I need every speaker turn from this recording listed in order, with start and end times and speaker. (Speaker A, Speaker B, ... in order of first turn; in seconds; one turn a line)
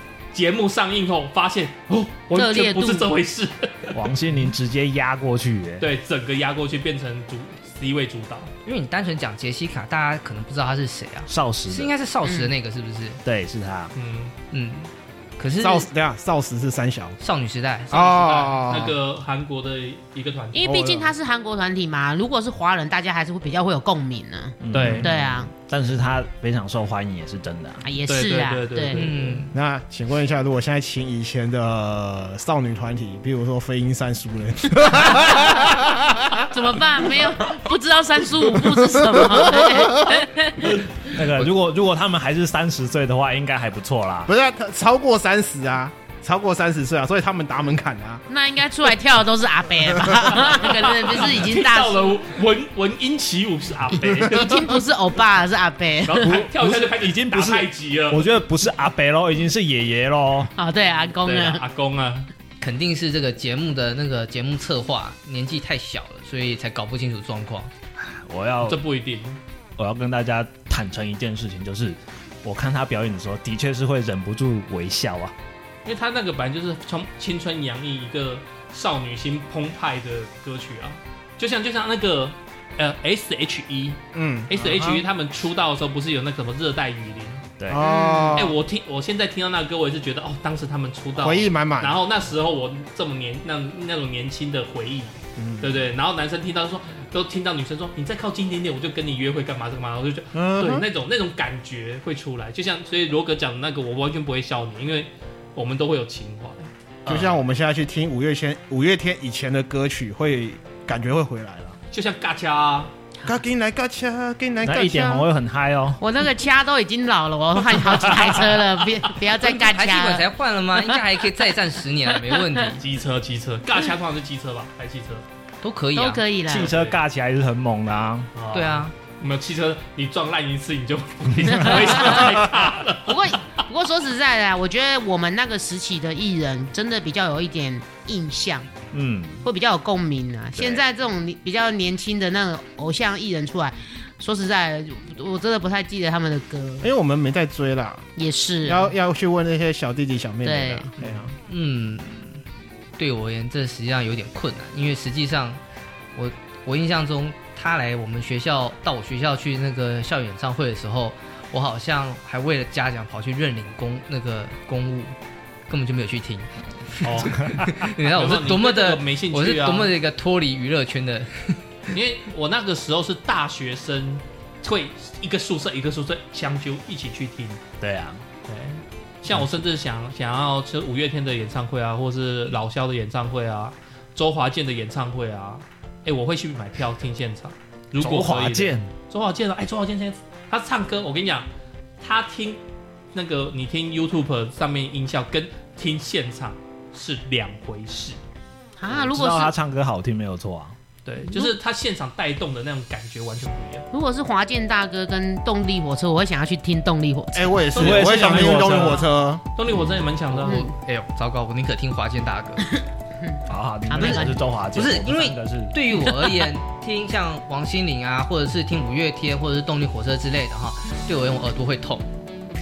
Speaker A: 0.3-4.1
Speaker B: 2.3-3.1
Speaker C: 3.9-5.9
Speaker A: 5.8-8.5
Speaker D: 8.7-13.2
Speaker C: 11.3-11.9
Speaker B: 12.2-12.5
Speaker C: 13.2-13.9
Speaker A: 13.9-14.3
Speaker D: 14.5-15.9
Speaker E: 15.6-17.2
Speaker D: 17.2-17.9
Speaker E: 17.9-19.0
Speaker A: 17.9-21.1
Speaker B: 20.5-25.5
Speaker C: 24.6-27.8
Speaker A: 24.7-25.1
Speaker B: 27.8-29.1
Speaker A: 28.1-29.4
Speaker D: 28.9-29.6
Speaker E: 29.5-36.5
Speaker B: 36.5-40.9
Speaker E: 38.7-40.1
Speaker C: 41.0-44.3
Speaker E: 44.3-48.2
Speaker B: 48.3-52.1
Speaker A: 50.5-54.8
Speaker B: 54.1-56.3
Speaker A: 56.0-58.3
Speaker C: 56.2-60.5
Speaker B: 60.6-61.6
Speaker A: 61.2-62.3
Speaker D: 62.6-67.7
Speaker C: 68.0-68.8
Speaker A: 68.6-69.4
Speaker C: 69.8-75.3
Speaker A: 75.8-87.5
Speaker E: 84.1-85.0
Speaker C: 87.6-87.9
Speaker E: 87.7-88.6
Speaker B: 87.8-88.4
Speaker A: 88.3-107.4
Speaker E: 91.2-92.0
Speaker E: 95.4-95.8
Speaker E: 100.3-100.9
Speaker E: 107.1-111.8
Speaker A: 111.9-112.9
Speaker E: 113.2-115.3
Speaker C: 114.6-116.0
Speaker B: 116.0-120.3
Speaker D: 119.4-122.8
Speaker B: 122.3-122.7
Speaker A: 122.8-125.3
Speaker D: 125.6-126.2
Speaker B: 126.0-126.7
Speaker C: 126.5-128.3
Speaker A: 126.5-127.0
Speaker A: 128.3-133.3
Speaker D: 128.5-128.9
Speaker B: 131.6-132.3
Speaker B: 133.1-138.7
Speaker C: 138.9-139.4
Speaker B: 139.4-146.9
Speaker C: 140.6-140.8
Speaker E: 146.8-148.1
Speaker B: 148.2-148.9
Speaker E: 148.7-151.3
Speaker B: 150.4-150.9
Speaker D: 151.5-152.4
Speaker D: 153.0-155.6
Speaker D: 156.2-165.2
Speaker D: 165.7-171.9
Speaker A: 167.0-169.9
Speaker A: 171.9-177.6
Speaker C: 177.8-178.2
Speaker A: 178.5-191.5
Speaker C: 188.0-188.9
Speaker A: 192.0-192.6
Speaker A: 193.1-198.2
Speaker B: 198.8-199.5
Speaker C: 198.9-200.8
Speaker A: 201.1-203.9
Speaker B: 201.2-201.5
Speaker B: 203.9-207.6
Speaker E: 207.3-209.4
Speaker A: 207.7-210.7
Speaker C: 207.8-209.1
Speaker D: 210.3-212.6
Speaker B: 210.5-210.7
Speaker B: 212.6-214.4
Speaker C: 213.5-215.8
Speaker D: 214.0-222.1